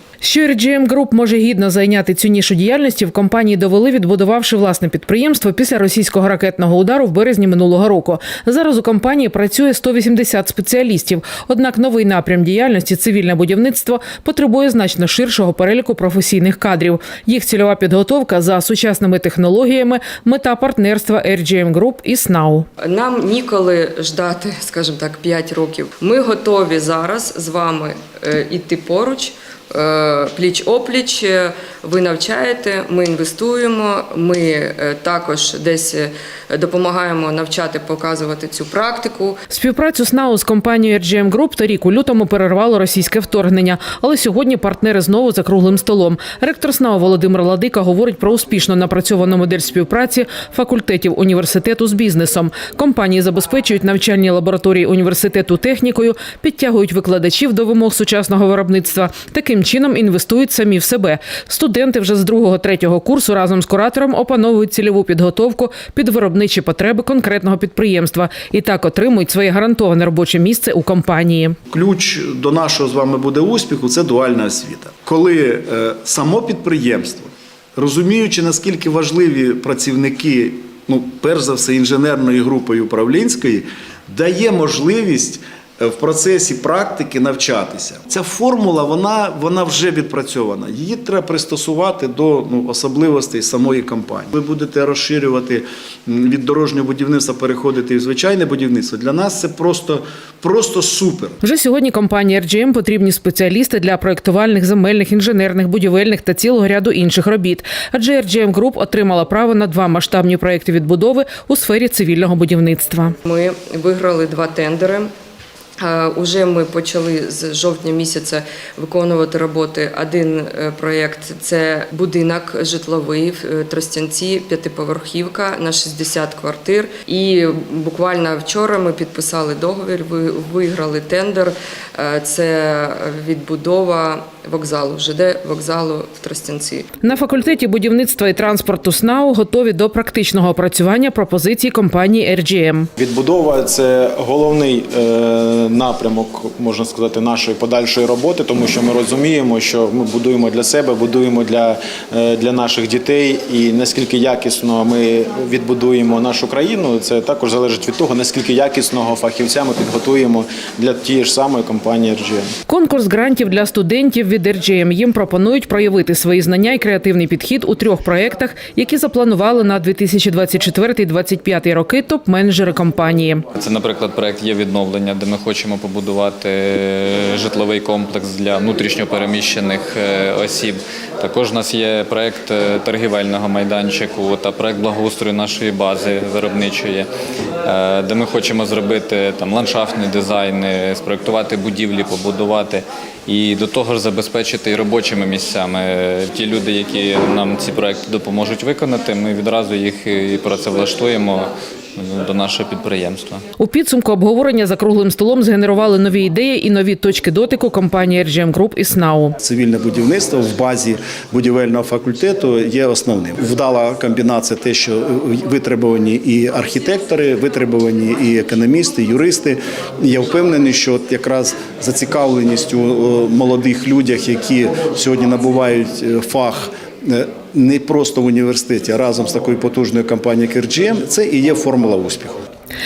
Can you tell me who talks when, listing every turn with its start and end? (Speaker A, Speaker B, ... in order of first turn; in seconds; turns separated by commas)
Speaker A: 0.2-22.7, Speaker B: 22.8-39.4, Speaker A: 39.5-71.5, Speaker C: 71.7-101.4, Speaker A: 101.4-113.1, Speaker B: 113.2-115.1, Speaker B: 115.8-136.9, Speaker A: 137.0-142.9, Speaker D: 143.0-162.5, Speaker A: 162.7-173.4, Speaker E: 173.5-187.1, Speaker E: 187.6-203.4, Speaker A: 203.6-209.4, Speaker C: 209.4-232.4